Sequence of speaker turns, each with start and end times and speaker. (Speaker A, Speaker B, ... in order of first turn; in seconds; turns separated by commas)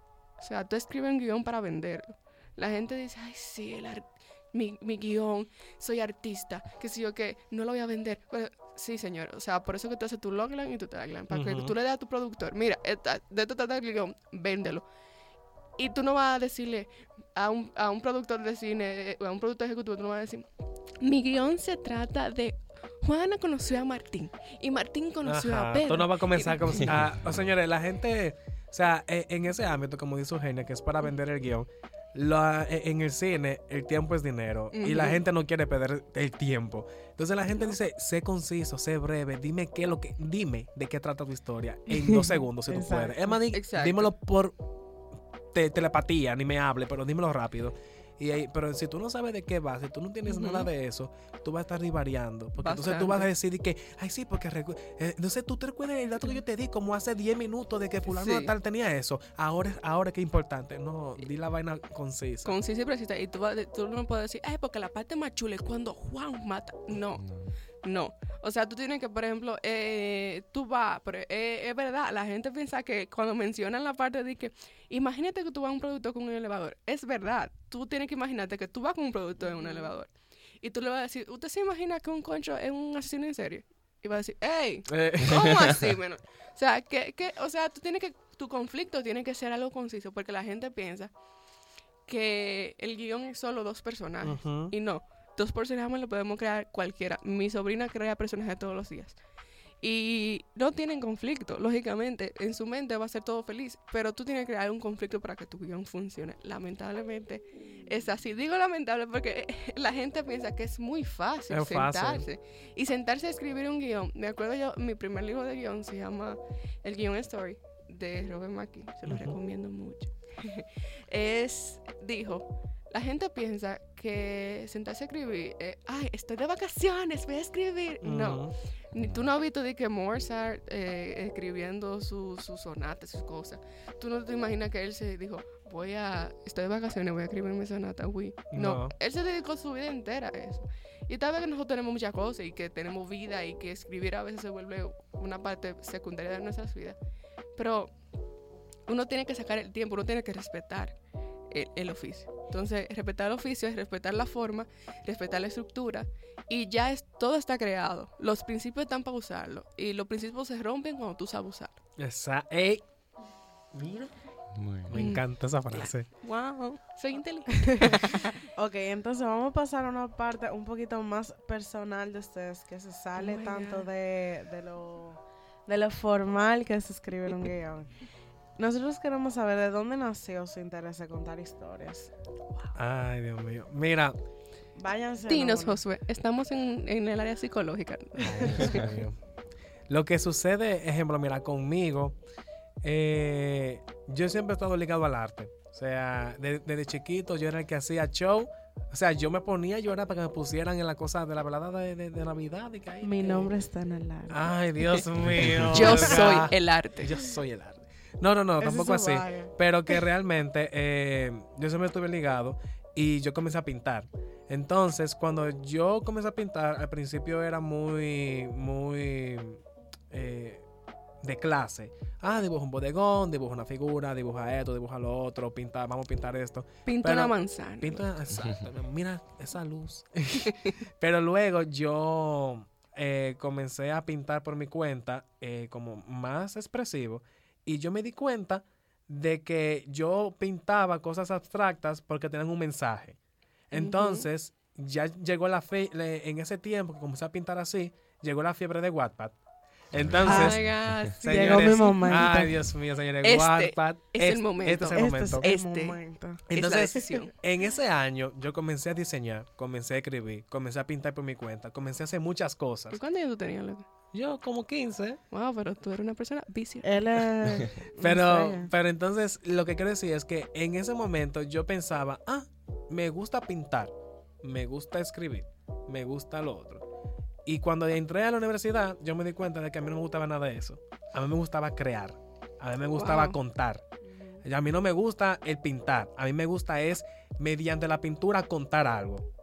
Speaker A: 0.4-14.9, Speaker B: 11.3-11.7, Speaker A: 15.8-20.5, Speaker A: 21.0-26.9, Speaker B: 25.2-44.6, Speaker A: 34.7-35.2, Speaker C: 42.7-43.4, Speaker A: 43.5-44.1, Speaker B: 45.5-62.6, Speaker A: 50.2-50.7, Speaker A: 52.6-53.3, Speaker A: 58.1-58.5, Speaker A: 62.4-67.2, Speaker D: 67.2-67.5, Speaker A: 67.8-80.1, Speaker A: 80.6-91.1, Speaker B: 84.9-85.7, Speaker A: 92.1-99.2, Speaker B: 94.2-94.7, Speaker A: 99.8-147.0, Speaker B: 111.5-112.3, Speaker B: 119.1-119.3, Speaker B: 128.0-128.6, Speaker D: 128.9-129.3, Speaker B: 138.5-138.9, Speaker A: 147.6-147.9, Speaker A: 148.9-150.9, Speaker A: 151.5-161.8, Speaker B: 162.0-162.8, Speaker B: 163.7-164.1, Speaker D: 164.6-165.1, Speaker B: 164.9-166.1, Speaker A: 164.9-168.3, Speaker C: 168.6-177.9, Speaker A: 173.2-173.9, Speaker C: 178.6-182.1, Speaker B: 182.8-184.2, Speaker C: 184.8-185.8, Speaker A: 185.3-188.9, Speaker B: 188.2-189.2, Speaker B: 189.9-192.2, Speaker B: 192.8-203.5, Speaker C: 203.0-204.5, Speaker B: 204.3-220.7, Speaker A: 205.7-207.1, Speaker C: 208.6-210.0, Speaker B: 221.2-243.2, Speaker A: 226.9-228.1, Speaker B: 243.7-249.4, Speaker A: 243.7-244.3, Speaker B: 249.9-255.4, Speaker D: 250.0-251.1, Speaker A: 250.2-252.4, Speaker C: 250.2-250.6, Speaker C: 251.2-252.7, Speaker A: 253.2-257.3, Speaker C: 254.9-256.5, Speaker B: 256.5-263.0, Speaker A: 262.9-263.9, Speaker B: 264.1-265.2, Speaker A: 265.3-267.4, Speaker C: 266.8-268.7, Speaker B: 268.0-276.8, Speaker B: 277.5-283.9, Speaker A: 282.9-283.4, Speaker B: 284.4-289.2